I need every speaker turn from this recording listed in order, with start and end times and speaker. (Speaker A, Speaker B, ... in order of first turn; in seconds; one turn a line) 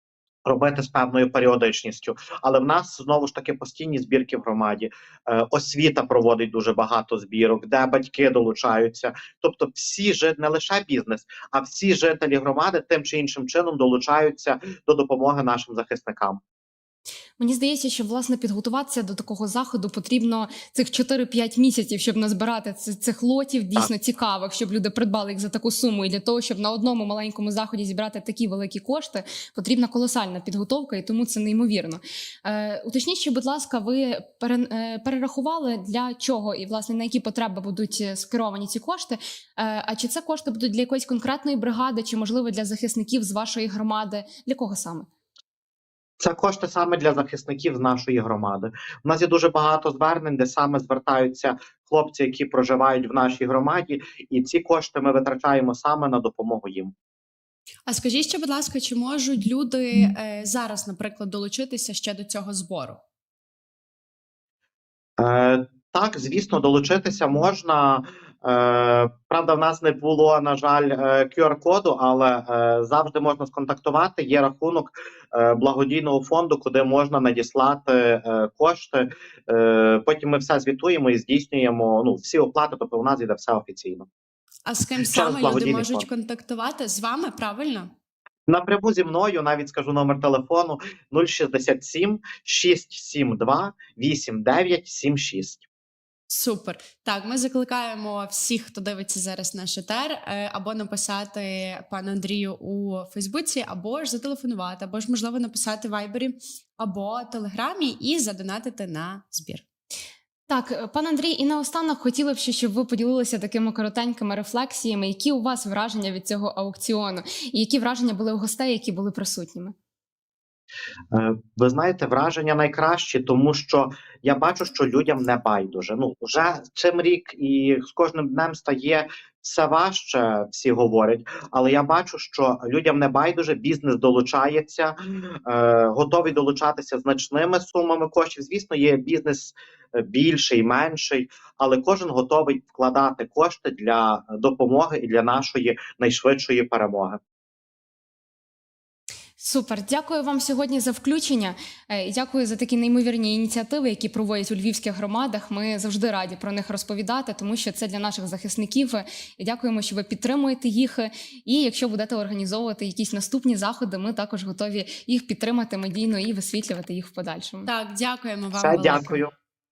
Speaker A: 0.5-16.4
Speaker B: 17.4-45.1
Speaker A: 46.2-56.9
Speaker C: 57.9-63.0
Speaker A: 65.2-84.1
Speaker C: 84.7-87.9
Speaker A: 85.1-86.0
Speaker A: 88.5-95.6
Speaker C: 96.3-109.6
Speaker B: 110.5-119.7
Speaker A: 121.1-147.2
Speaker B: 149.4-167.7
Speaker C: 167.7-169.2
Speaker A: 168.6-169.3